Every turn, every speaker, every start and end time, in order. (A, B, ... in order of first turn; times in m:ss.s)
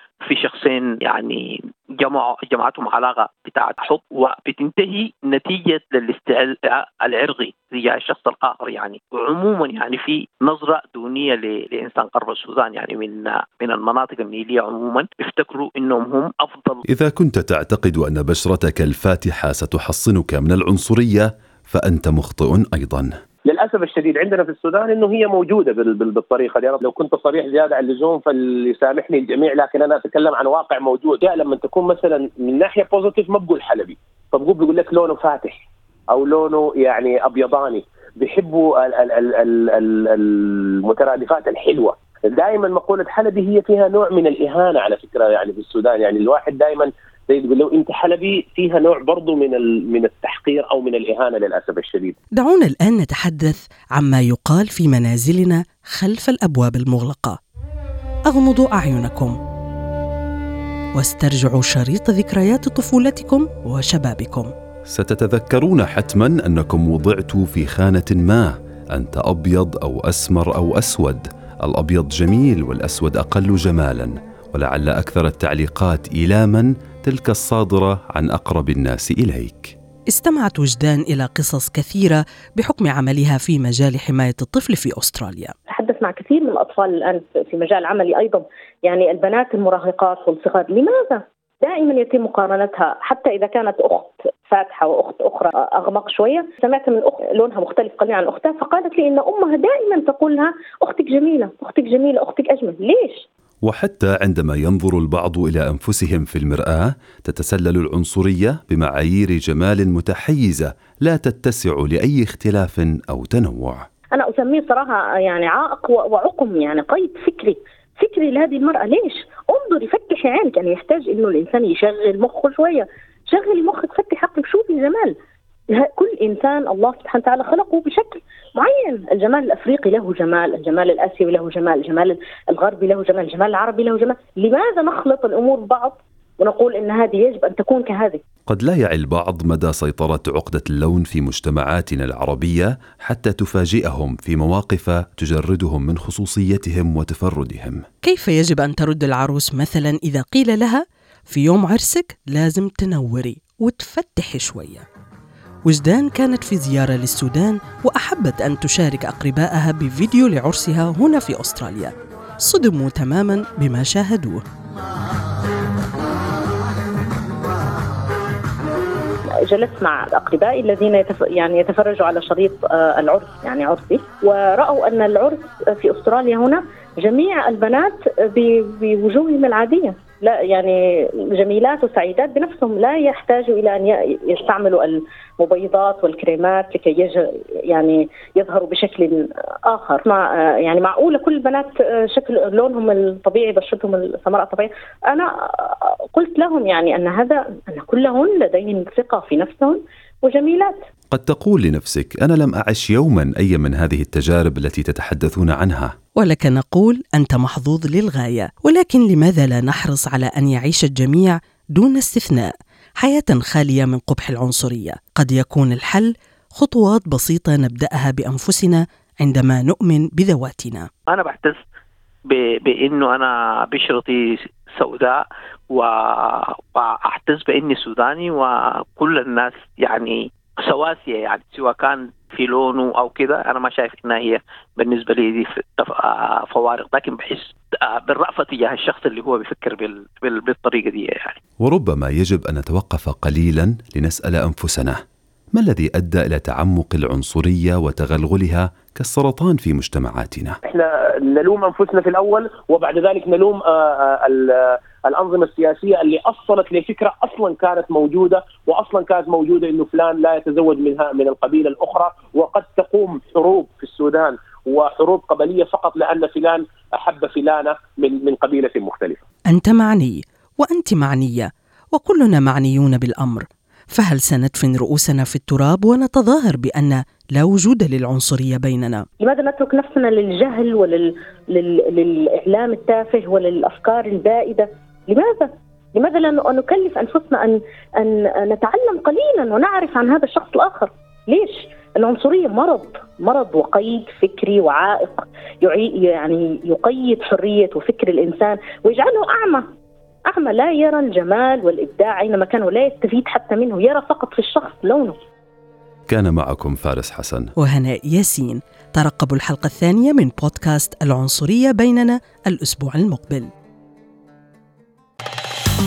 0:00.2-0:01.5 A
0:02.0-0:16.8 A
0:16.9-0:23.1 B
0:23.5-0:52.1 C
0:52.4-0:57.4 D
0:58.3-0:59.4 D
1:01.0-1:04.5 D
1:04.9-1:19.7 B
1:20.1-1:25.5 D
1:25.7-1:43.2 E
1:43.6-1:53.8 B
1:54.2-2:05.1 E
2:05.7-2:18.2 E
2:18.5-2:27.8 B
2:28.0-2:34.8 D
2:35.6-2:44.4 D
2:49.5-3:20.7 E
3:21.1-3:25.9 B
3:26.2-3:40.9 D
3:41.1-3:41.6 A
3:42.3-4:01.4 A
4:01.6-4:05.0 B
4:05.6-4:10.6 B
4:10.6-4:29.2 C
4:29.5-4:39.1 D
4:39.2-4:59.6 E
5:00.3-5:05.2 E
5:06.1-5:07.5 B
5:07.6-5:13.5 D